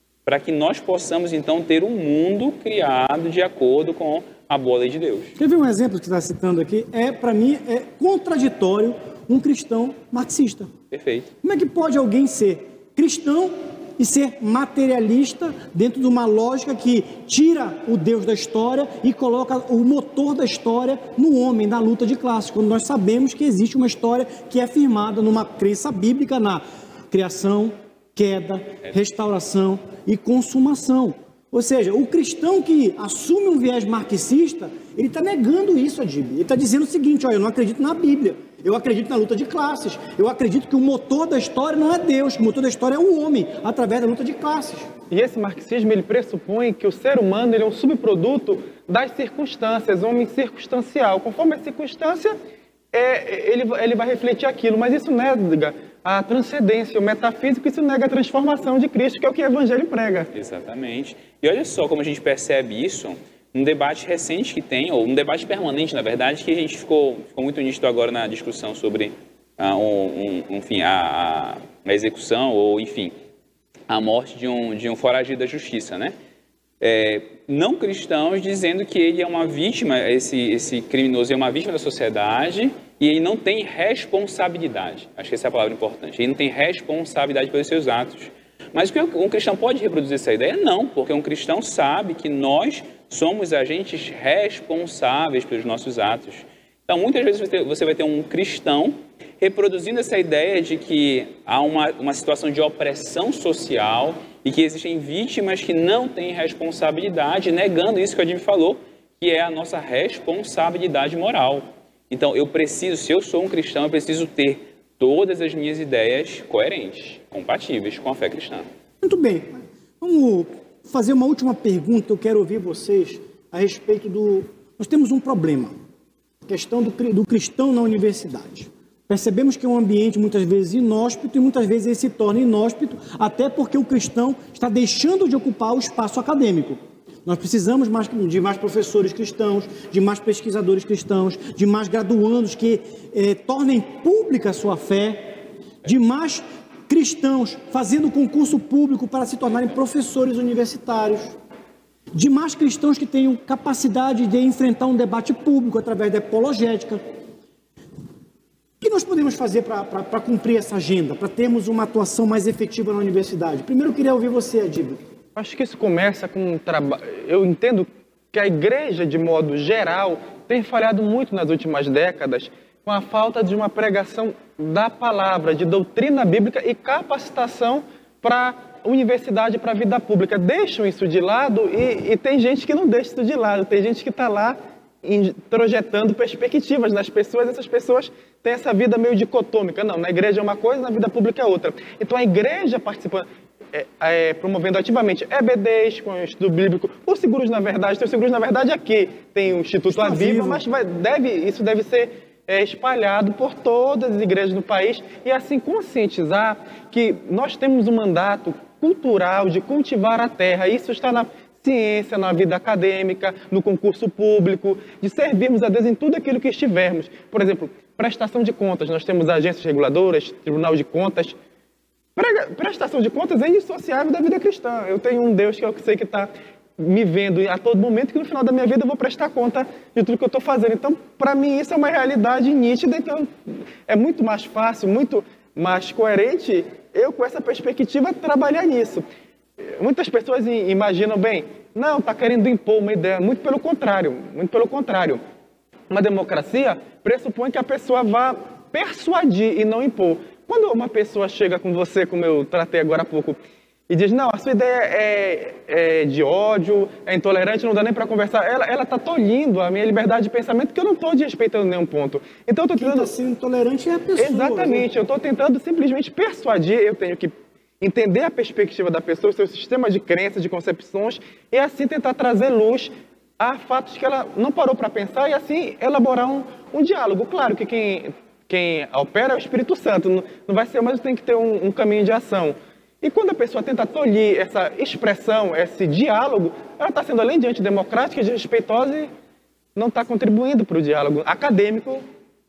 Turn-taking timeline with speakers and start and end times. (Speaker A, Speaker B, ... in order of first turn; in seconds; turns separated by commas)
Speaker A: 0.2-5.3, Speaker B: 5.4-10.7, Speaker A: 10.9-11.3, Speaker B: 11.4-44.9, Speaker C: 45.1-52.3, Speaker C: 52.9-60.3, Speaker A: 60.3-73.1, Speaker A: 73.9-76.1, Speaker A: 76.8-118.7, Speaker B: 119.0-125.7, Speaker B: 126.5-145.2, Speaker B: 145.8-151.3, Speaker B: 152.1-157.0, Speaker B: 158.8-165.0, Speaker C: 165.3-221.3, Speaker B: 199.9-200.6, Speaker C: 222.2-239.0, Speaker C: 239.6-245.2, Speaker C: 245.9-253.4, Speaker C: 253.9-263.1, Speaker B: 262.8-264.9, Speaker C: 264.2-289.1, Speaker C: 289.8-292.0